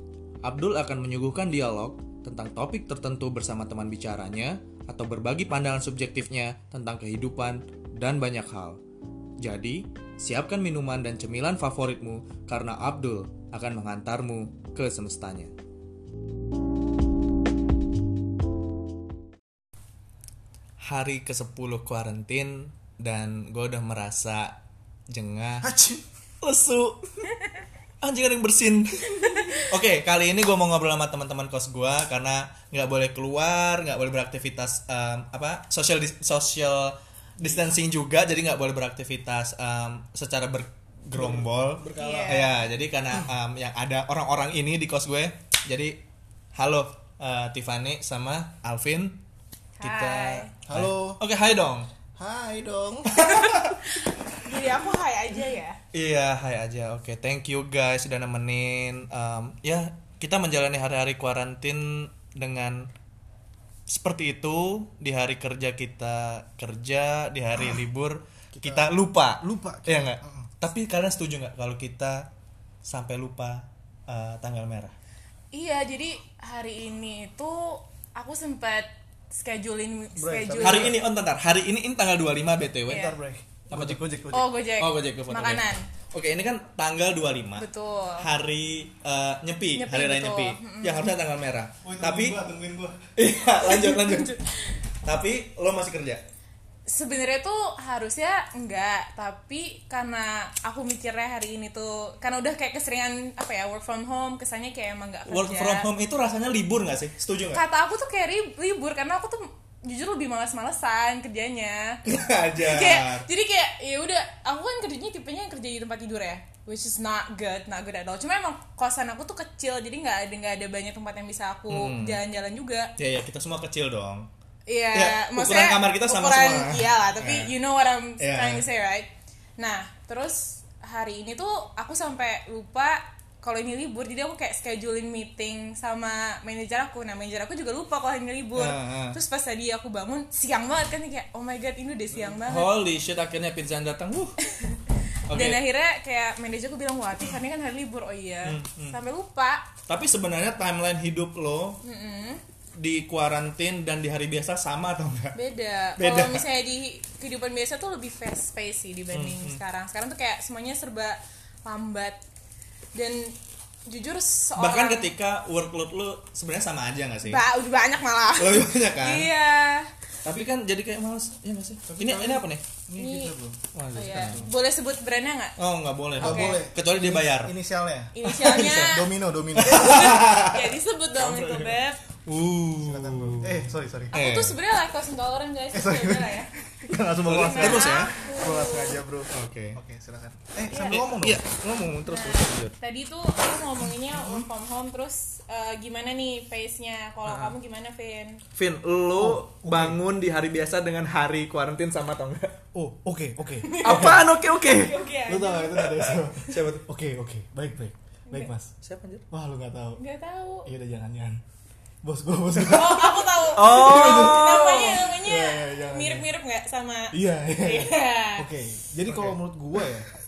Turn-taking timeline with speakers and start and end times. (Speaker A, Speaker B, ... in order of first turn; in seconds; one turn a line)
Speaker A: 0.4-8.8
Speaker A: 9.4-15.5
Speaker A: 20.8-24.6
Speaker A: 25.1-25.7
Speaker B: 25.6-26.0
Speaker A: 26.4-27.3
Speaker A: 28.0-46.0
Speaker C: 29.2-29.6
Speaker B: 37.4-37.8
Speaker B: 41.1-42.6
Speaker C: 42.0-42.5
Speaker A: 46.5-49.2
Speaker C: 49.8-50.5
Speaker A: 49.8-51.9
Speaker B: 50.7-51.2
Speaker B: 52.1-53.4
Speaker A: 53.1-53.8
Speaker C: 53.2-55.8
Speaker A: 55.9-62.9
Speaker A: 63.9-72.3
Speaker B: 68.5-70.5
Speaker A: 72.8-74.9
Speaker C: 75.5-81.0
Speaker B: 80.2-81.0
Speaker A: 80.6-83.2
Speaker C: 82.9-83.2
Speaker B: 82.9-84.5
Speaker A: 83.7-87.7
Speaker C: 84.3-85.9
Speaker C: 87.5-88.3
Speaker A: 88.2-92.4
Speaker C: 89.8-91.1
Speaker B: 91.8-93.1
Speaker A: 93.2-94.4
Speaker C: 93.6-94.7
Speaker A: 95.0-96.2
Speaker C: 96.8-105.9
Speaker A: 105.3-107.6
Speaker C: 107.5-112.0
Speaker A: 112.1-113.1
Speaker C: 112.6-122.9
Speaker A: 121.7-122.2
Speaker A: 123.0-124.3
Speaker C: 124.7-142.8
Speaker A: 124.9-127.5
Speaker A: 128.2-128.7
Speaker A: 138.6-139.2
Speaker A: 142.2-144.4
Speaker C: 144.4-149.7
Speaker A: 145.3-145.6
Speaker A: 148.4-149.0
Speaker A: 149.9-151.8
Speaker C: 151.8-152.4
Speaker A: 152.8-155.4
Speaker C: 155.3-162.2
Speaker A: 156.0-156.4
Speaker A: 159.1-159.6
Speaker C: 162.9-165.1
Speaker A: 164.6-167.4
Speaker C: 167.2-169.9
Speaker A: 168.4-169.3
Speaker A: 170.2-172.6
Speaker B: 171.9-174.5
Speaker C: 173.0-173.3
Speaker A: 173.7-174.4
Speaker C: 173.9-175.6
Speaker A: 175.6-177.5
Speaker B: 176.2-180.4
Speaker C: 176.2-176.6
Speaker C: 178.1-182.0
Speaker A: 178.2-178.9
Speaker A: 179.6-180.7
Speaker B: 181.2-181.7
Speaker A: 182.2-184.6
Speaker B: 182.8-184.4
Speaker C: 184.1-186.5
Speaker B: 185.7-191.5
Speaker A: 187.2-188.1
Speaker C: 187.2-189.0
Speaker A: 189.3-189.8
Speaker C: 190.7-191.0
Speaker A: 190.7-192.7
Speaker C: 192.0-198.4
Speaker A: 197.2-197.5
Speaker A: 198.6-202.5
Speaker B: 199.1-200.0
Speaker B: 202.7-204.3
Speaker C: 203.6-206.0
Speaker A: 203.8-205.1
Speaker B: 205.2-208.7
Speaker A: 205.8-206.8
Speaker A: 208.8-209.2
Speaker B: 209.3-210.0
Speaker C: 210.0-210.7
Speaker B: 210.6-211.4
Speaker B: 212.0-214.5
Speaker C: 212.7-218.5
Speaker A: 213.5-215.1
Speaker B: 215.0-216.2
Speaker B: 217.1-220.1
Speaker A: 219.1-219.4